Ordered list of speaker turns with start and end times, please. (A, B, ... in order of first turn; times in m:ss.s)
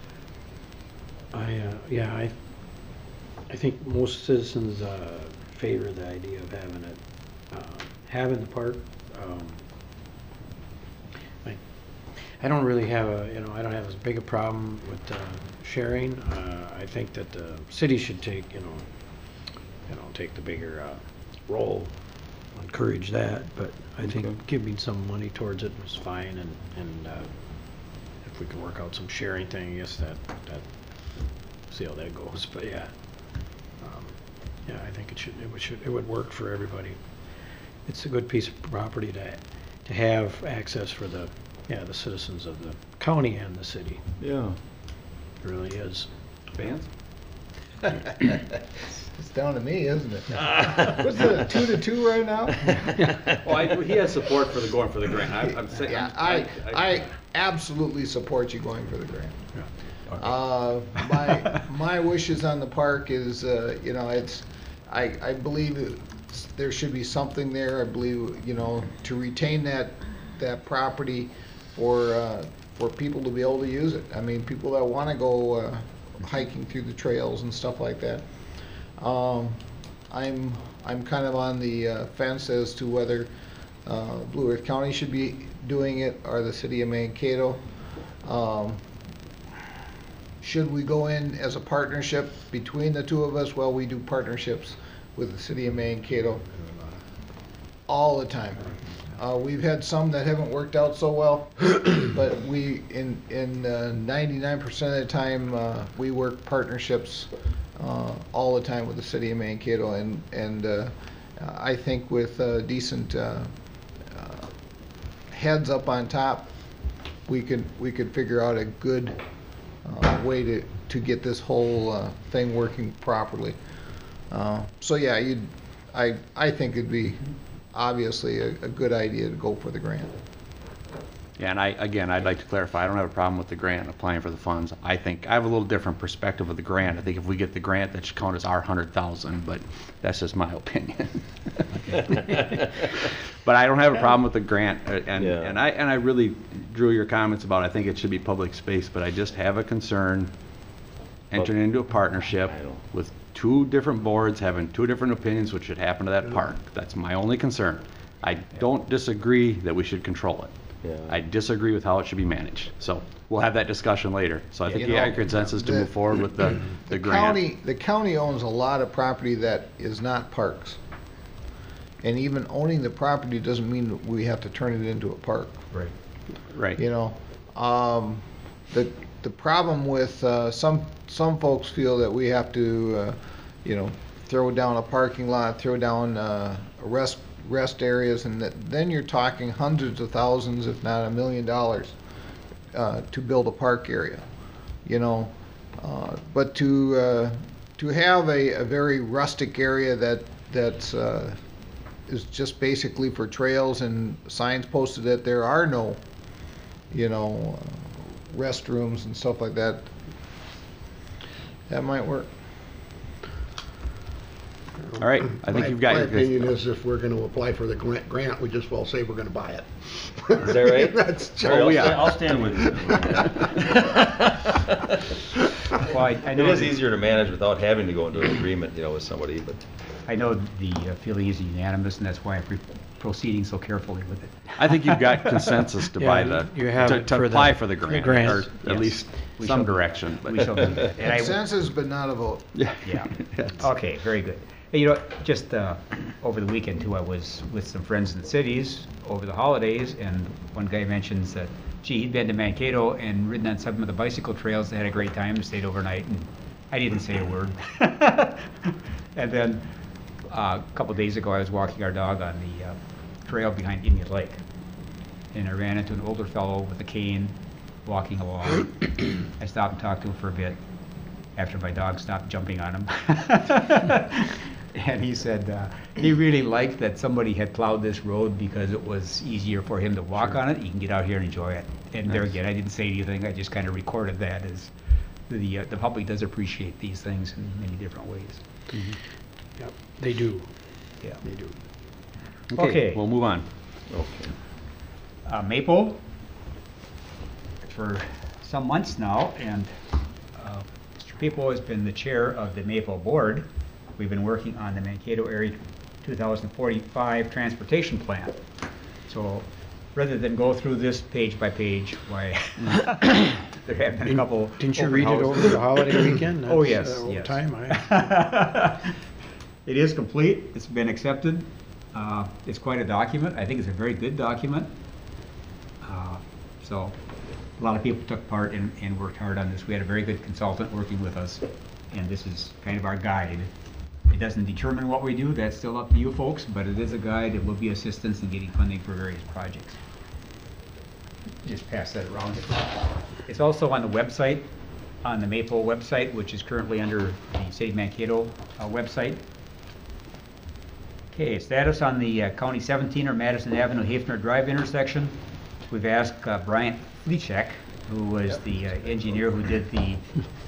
0:01.3-0:09.6 A
0:11.4-0:37.2 A
0:37.8-0:44.0 A
0:44.2-0:44.6 B
0:45.4-0:46.8 A
0:46.6-0:46.8 C
0:49.1-0:52.8 D
0:50.4-0:51.0 B
0:52.7-0:53.3 B
0:53.4-0:56.9 C
0:55.7-0:59.5 D
1:00.2-1:18.3 D
1:19.0-1:23.3 D
1:23.8-1:27.7 D
1:28.2-1:28.9 D
1:30.4-1:36.4 D
1:37.9-1:54.5 D
1:55.3-1:56.6 D
1:57.2-1:59.2 D
1:59.7-2:03.6 D
2:04.3-2:10.1 D
2:11.4-2:30.3 C
2:25.2-2:25.6 B
2:31.3-2:40.5 C
2:32.5-2:32.8 B
2:40.8-2:41.2 B
2:41.1-2:47.4 C
2:44.7-2:46.2 D
2:46.9-2:50.8 D
2:52.0-2:55.7 D
2:56.5-2:56.8 C
2:56.8-3:12.0 D
3:12.7-3:14.3 D
3:14.8-3:21.4 D
3:22.1-3:26.0 D
3:26.9-3:29.9 D
3:31.7-3:32.3 D
3:34.9-3:43.4 E
3:35.0-3:36.5 C
3:40.4-3:44.9 B
3:41.4-3:42.2 C
3:45.8-3:46.8 F
3:46.3-3:49.6 B
3:50.0-3:55.5 F
3:54.6-4:00.8 C
3:56.0-3:58.5 A
3:58.5-4:01.4 F
4:01.0-4:02.6 D
4:02.5-4:03.6 C
4:02.8-4:19.7 F
4:20.3-4:24.4 F
4:25.3-4:30.6 F
4:31.3-4:48.4 F
4:42.1-4:42.3 C
4:49.6-4:50.6 A
4:51.2-4:51.6 A
4:52.5-4:53.5 C
4:52.6-4:53.0 F
4:53.9-4:54.3 B
4:55.2-4:56.0 F
4:57.6-4:59.7 F
5:00.4-5:08.4 F
5:09.0-5:18.9 F
5:14.0-5:17.9 A
5:19.6-5:24.7 F
5:25.8-5:26.9 F
5:27.6-5:33.5 F
5:34.1-5:39.8 F
5:41.4-5:44.4 F
5:45.0-5:49.2 F
5:51.1-6:00.1 F